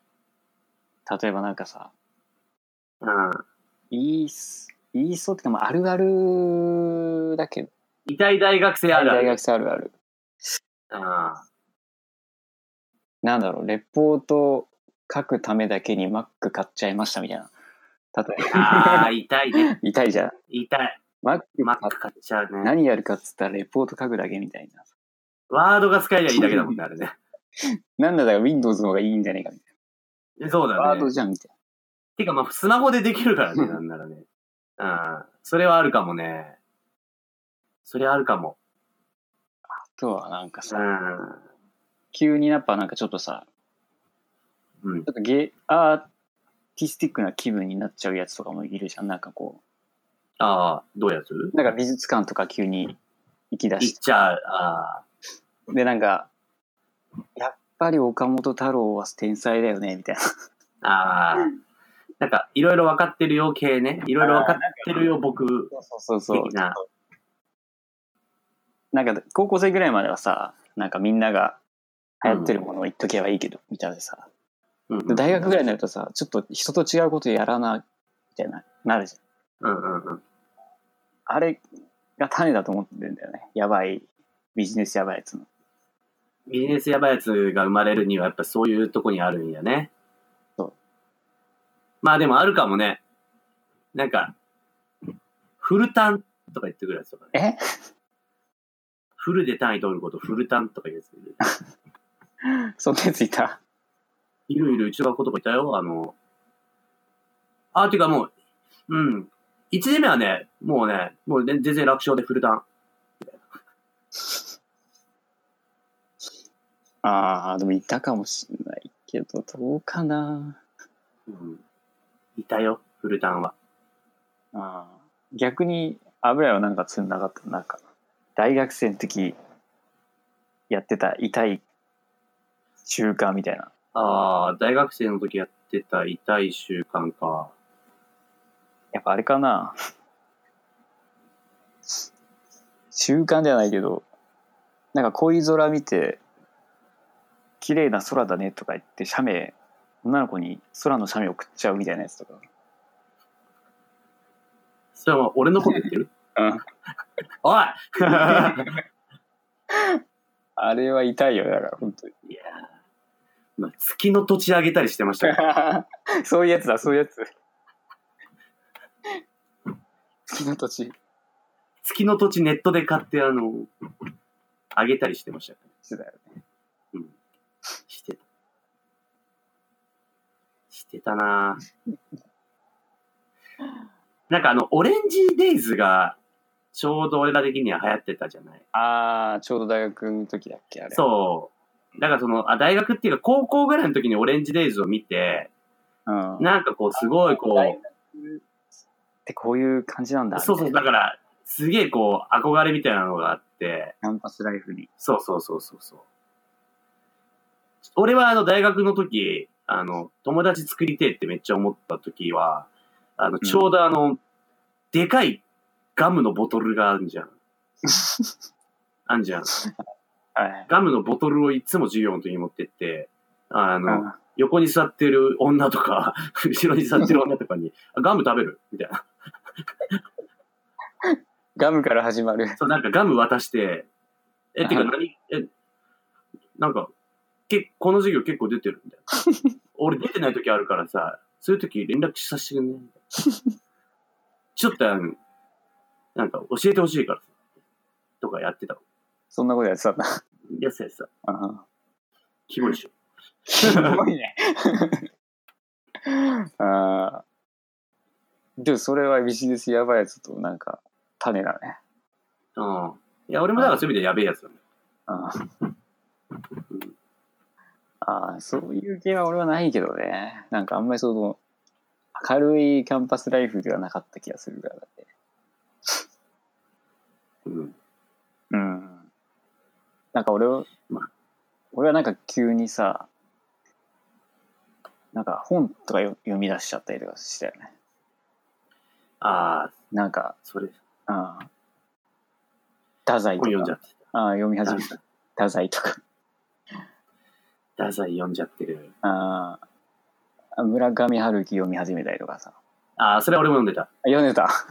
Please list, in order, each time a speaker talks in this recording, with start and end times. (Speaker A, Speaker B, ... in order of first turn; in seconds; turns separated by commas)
Speaker A: 1.1-1.9, Speaker B: 3.0-3.4, Speaker A: 3.9-7.7, Speaker B: 8.1-9.4, Speaker A: 8.9-9.9, Speaker B: 10.9-11.5, Speaker A: 13.2-17.5, Speaker A: 18.1-20.4, Speaker B: 18.5-19.7, Speaker B: 20.5-21.0, Speaker A: 21.2-21.9, Speaker B: 21.6-22.7, Speaker A: 22.6-24.8, Speaker B: 25.5-27.2, Speaker A: 26.3-26.8, Speaker A: 28.0-29.6, Speaker B: 30.4-31.1, Speaker A: 30.7-31.5, Speaker B: 32.2-34.2, Speaker B: 34.8-36.6, Speaker B: 37.9-38.6, Speaker A: 39.7-40.9, Speaker B: 40.7-41.4, Speaker A: 42.1-43.5, Speaker B: 44.8-45.1, Speaker A: 45.1-46.1, Speaker A: 46.8-49.6, Speaker B: 50.4-51.5, Speaker A: 51.5-53.0, Speaker A: 53.5-54.0, Speaker B: 53.8-55.0, Speaker A: 55.7-56.3, Speaker A: 57.4-60.2, Speaker B: 60.8-61.5, Speaker B: 62.2-65.7, Speaker A: 64.2-65.1, Speaker A: 65.7-66.9, Speaker B: 66.3-66.8, Speaker A: 68.9-71.6, Speaker A: 72.2-74.3, Speaker B: 72.2-72.6, Speaker B: 74.9-75.5, Speaker A: 75.1-77.8, Speaker A: 78.3-79.2, Speaker B: 79.6-80.2, Speaker A: 81.3-81.6, Speaker A: 82.2-85.5, Speaker B: 86.5-89.9, Speaker B: 92.0-93.0, Speaker B: 93.9-94.3, Speaker B: 95.6-97.3, Speaker A: 97.3-97.6, Speaker B: 99.2-101.4, Speaker A: 102.4-103.6, Speaker B: 104.5-106.2, Speaker B: 107.7-108.3, Speaker B: 108.9-112.6, Speaker B: 113.2-113.5, Speaker A: 117.0-120.6, Speaker B: 121.3-121.6, Speaker B: 122.4-123.5, Speaker A: 124.5-127.8, Speaker A: 128.4-129.4, Speaker A: 130.7-131.6, Speaker A: 132.8-133.7, Speaker B: 133.9-137.5, Speaker A: 138.9-139.8, Speaker A: 142.9-144.1, Speaker A: 144.9-146.2, Speaker A: 147.6-152.4, Speaker B: 155.0-156.1, Speaker A: 155.7-156.6, Speaker B: 157.4-158.8, Speaker A: 158.1-158.8, Speaker A: 159.7-160.0, Speaker A: 160.6-162.1, Speaker B: 162.3-162.7, Speaker B: 163.6-165.4, Speaker A: 165.2-167.3, Speaker A: 170.3-170.9, Speaker B: 171.8-173.7, Speaker B: 174.8-175.7, Speaker A: 175.8-176.4, Speaker B: 177.9-178.2, Speaker B: 180.7-181.6, Speaker B: 184.3-186.2, Speaker B: 186.7-188.6, Speaker A: 188.7-191.1, Speaker B: 190.9-195.5, Speaker A: 196.1-198.4, Speaker B: 196.4-197.8, Speaker A: 199.3-200.8, Speaker B: 200.4-203.9, Speaker A: 204.0-204.9, Speaker B: 205.0-206.0, Speaker B: 207.8-214.2, Speaker A: 213.4-213.7, Speaker B: 214.9-215.4, Speaker B: 216.0-217.3, Speaker A: 217.8-218.3, Speaker B: 219.1-219.5, Speaker A: 219.6-220.7, Speaker B: 220.7-229.1, Speaker A: 223.9-224.2, Speaker B: 229.6-230.0, Speaker A: 231.0-232.6, Speaker B: 232.6-233.9, Speaker B: 234.5-235.5, Speaker A: 234.6-234.9, Speaker B: 236.6-236.9, Speaker B: 237.5-239.0, Speaker A: 239.2-239.5, Speaker B: 239.8-242.9, Speaker A: 243.2-243.5, Speaker B: 244.6-245.2, Speaker B: 246.2-247.3, Speaker B: 248.2-248.8, Speaker A: 249.3-250.2, Speaker B: 250.6-251.1, Speaker A: 251.3-251.6, Speaker B: 252.5-252.9, Speaker A: 253.5-255.1, Speaker B: 253.6-254.0, Speaker A: 256.0-257.2, Speaker A: 258.6-261.8, Speaker B: 262.6-264.6, Speaker A: 265.1-265.5, Speaker A: 268.0-271.4, Speaker A: 272.1-275.1, Speaker B: 277.4-277.8, Speaker A: 278.5-279.1, Speaker A: 280.1-280.7, Speaker A: 281.7-283.1, Speaker A: 285.1-287.7, Speaker B: 289.2-289.7, Speaker A: 289.9-290.4, Speaker B: 290.5-290.8, Speaker A: 291.1-291.5, Speaker A: 293.1-296.0, Speaker B: 293.4-294.0, Speaker B: 294.6-295.0, Speaker B: 297.8-298.9, Speaker A: 299.0-299.6, Speaker A: 300.6-302.6, Speaker B: 303.0-303.9, Speaker A: 304.0-304.5